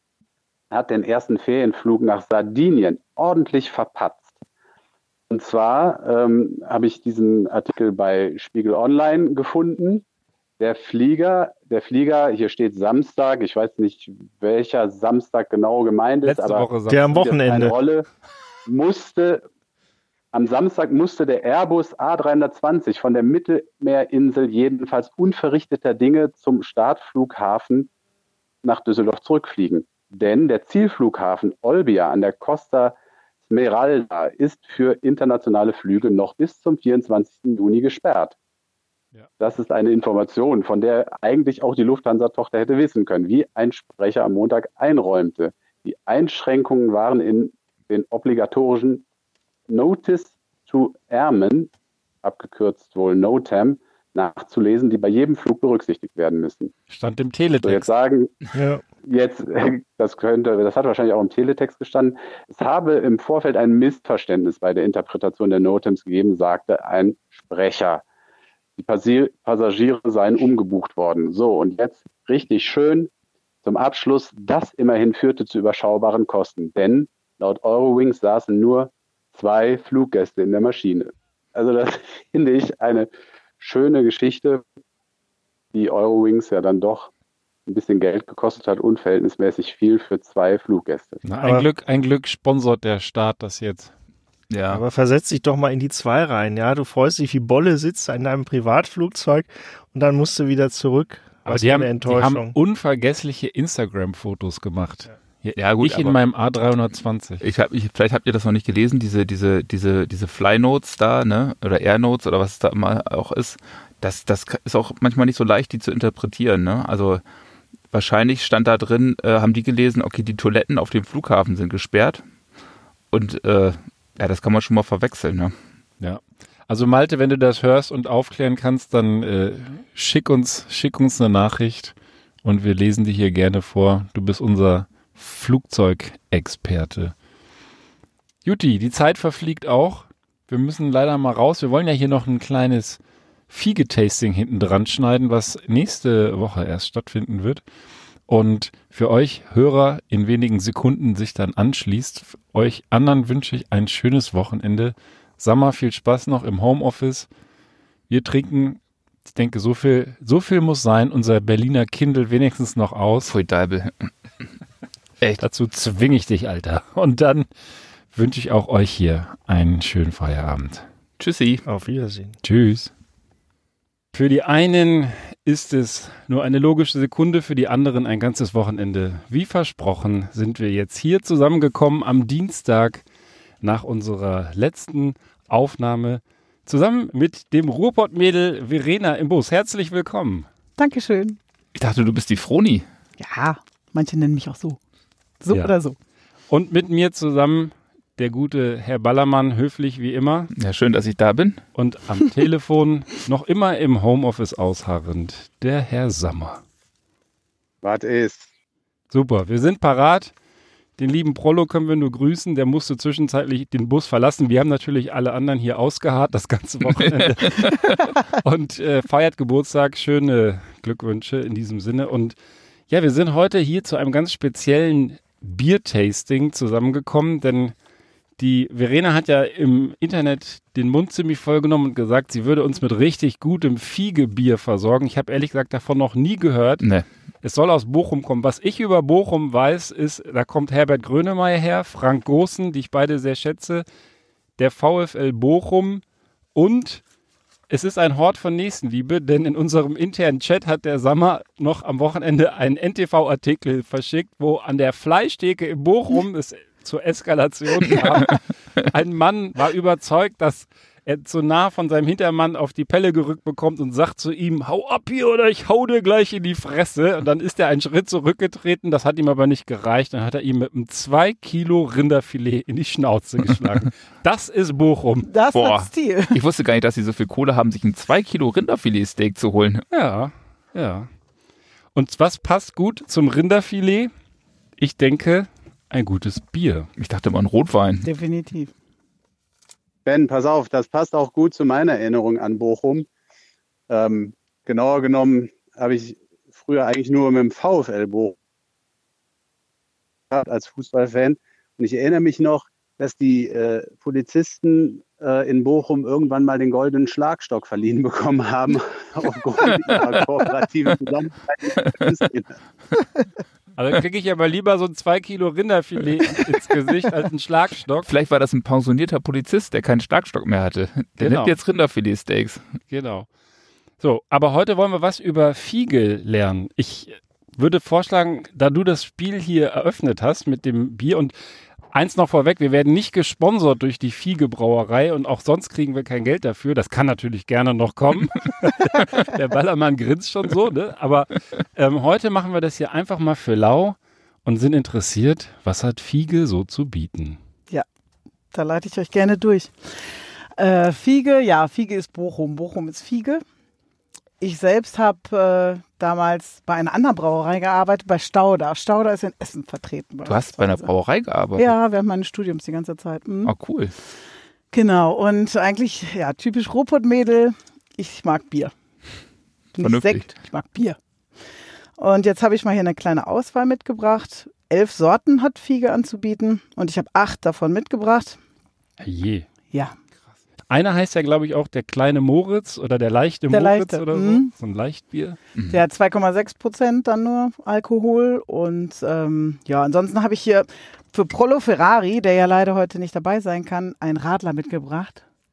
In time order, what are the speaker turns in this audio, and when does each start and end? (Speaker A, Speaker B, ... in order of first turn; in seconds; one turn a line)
Speaker A: 0.7-4.3
Speaker A: 5.3-10.0
Speaker A: 10.6-18.1
Speaker B: 16.2-17.6
Speaker C: 16.9-17.7
Speaker A: 18.6-19.4
Speaker A: 20.3-27.9
Speaker A: 28.6-33.0
Speaker A: 33.5-38.4
Speaker A: 39.4-49.0
Speaker A: 49.7-51.7
Speaker A: 52.2-56.7
Speaker B: 56.9-57.9
Speaker A: 57.6-58.4
Speaker C: 58.5-58.8
Speaker A: 59.0-68.0
Speaker A: 68.8-73.1
Speaker A: 73.6-83.1
Speaker A: 83.6-84.6
Speaker A: 85.7-87.1
Speaker A: 87.7-91.2
Speaker B: 91.2-93.9
Speaker C: 91.4-91.7
Speaker D: 94.5-94.8
Speaker C: 94.7-102.5
Speaker B: 101.5-107.4
Speaker D: 105.5-106.2
Speaker D: 107.4-117.2
Speaker D: 117.9-122.2
Speaker D: 123.1-125.5
Speaker B: 126.0-137.1
Speaker B: 138.4-147.6
Speaker B: 148.3-157.3
Speaker B: 158.1-163.3
Speaker D: 163.3-164.1
Speaker B: 165.4-167.5
Speaker B: 168.1-170.8
Speaker D: 171.2-171.6
Speaker C: 171.7-172.3
Speaker B: 172.4-172.9
Speaker B: 174.1-183.0
Speaker B: 183.6-190.5
Speaker E: 190.8-191.4
Speaker D: 191.8-192.8
Speaker E: 193.2-194.8
Speaker E: 195.4-195.9
Speaker B: 196.5-200.5
Speaker D: 200.5-201.6
Speaker B: 201.7-206.6
Speaker A: 207.8-208.5
Speaker B: 209.1-210.3
Speaker B: 211.0-222.3
Speaker D: 216.9-218.1
Speaker B: 222.9-227.7
Speaker B: 228.4-236.9
Speaker B: 237.4-243.8
Speaker B: 244.6-246.0
Speaker B: 246.5-247.0
Speaker B: 247.7-275.3
Speaker E: 275.3-276.4
Speaker D: 275.5-279.8
Speaker B: 279.9-281.1
Speaker B: 281.9-284.1
Speaker B: 284.8-286.9
Speaker D: 287.0-288.1
Speaker E: 288.0-288.7
Speaker A: 290.0-293.1
Speaker A: 293.9-298.4
Speaker A: 300.3-312.5
Speaker B: 313.8-318.1
Speaker D: 318.1-322.6
Speaker B: 321.2-321.6
Speaker B: 322.9-323.3
Speaker B: 324.0-331.3
Speaker B: 331.9-347.4
Speaker E: 348.5-353.4
Speaker E: 354.4-360.9
Speaker D: 360.2-361.7
Speaker E: 361.6-363.5
Speaker D: 363.4-363.9
Speaker E: 364.7-368.7
Speaker E: 369.8-371.0
Speaker D: 369.8-370.3
Speaker E: 372.0-378.4
Speaker B: 379.0-379.4
Speaker B: 380.7-385.4
Speaker E: 383.5-384.5
Speaker D: 385.5-385.8
Speaker E: 385.7-395.2